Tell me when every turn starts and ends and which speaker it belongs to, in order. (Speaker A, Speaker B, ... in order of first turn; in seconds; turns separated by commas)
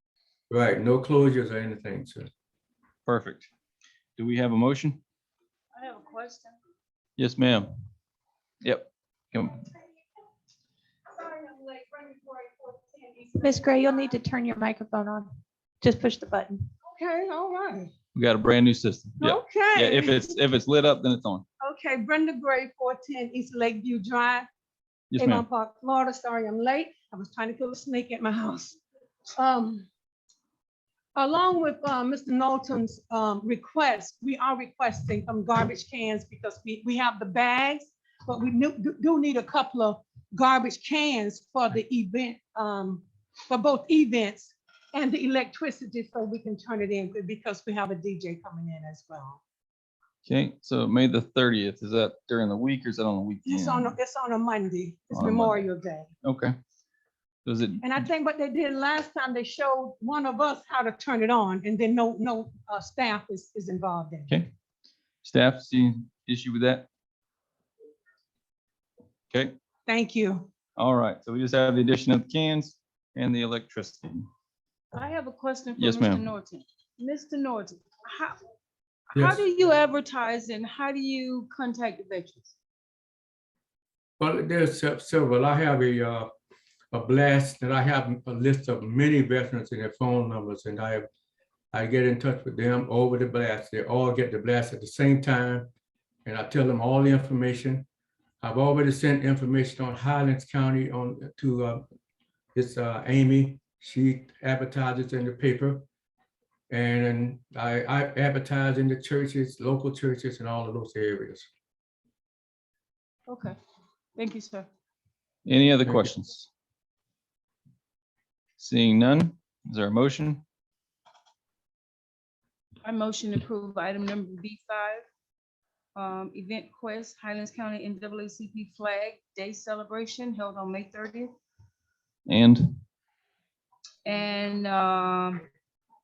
Speaker A: 0.5-2.2, Speaker B: 3.0-3.5, Speaker B: 4.2-5.0, Speaker C: 5.7-6.5, Speaker B: 7.2-7.7, Speaker B: 8.6-9.6, Speaker D: 11.1-13.9, Speaker E: 13.4-15.3, Speaker E: 15.8-16.6, Speaker D: 16.8-17.9, Speaker B: 18.1-21.4, Speaker D: 19.2-20.3, Speaker D: 21.6-24.5, Speaker B: 25.1-25.4, Speaker D: 25.1-28.8, Speaker D: 29.3-29.9, Speaker D: 31.1-49.4, Speaker B: 50.2-53.9, Speaker D: 53.4-56.1, Speaker B: 55.1-55.7, Speaker B: 56.2-56.5, Speaker B: 57.4-58.1, Speaker D: 57.8-64.3, Speaker B: 65.2-66.8, Speaker D: 69.8-70.5, Speaker B: 70.8-74.3, Speaker C: 74.9-78.4, Speaker B: 75.8-76.2, Speaker C: 79.1-82.5, Speaker A: 84.2-86.3, Speaker A: 86.9-91.1, Speaker A: 91.7-95.7, Speaker A: 96.2-97.8, Speaker A: 98.4-101.8, Speaker A: 102.5-105.8, Speaker A: 106.7-111.5, Speaker C: 113.3-113.6, Speaker C: 114.2-114.7, Speaker B: 115.5-116.5, Speaker B: 118.6-120.4, Speaker C: 122.8-125.0, Speaker C: 126.0-131.3, Speaker B: 132.3-132.8, Speaker C: 134.0-135.4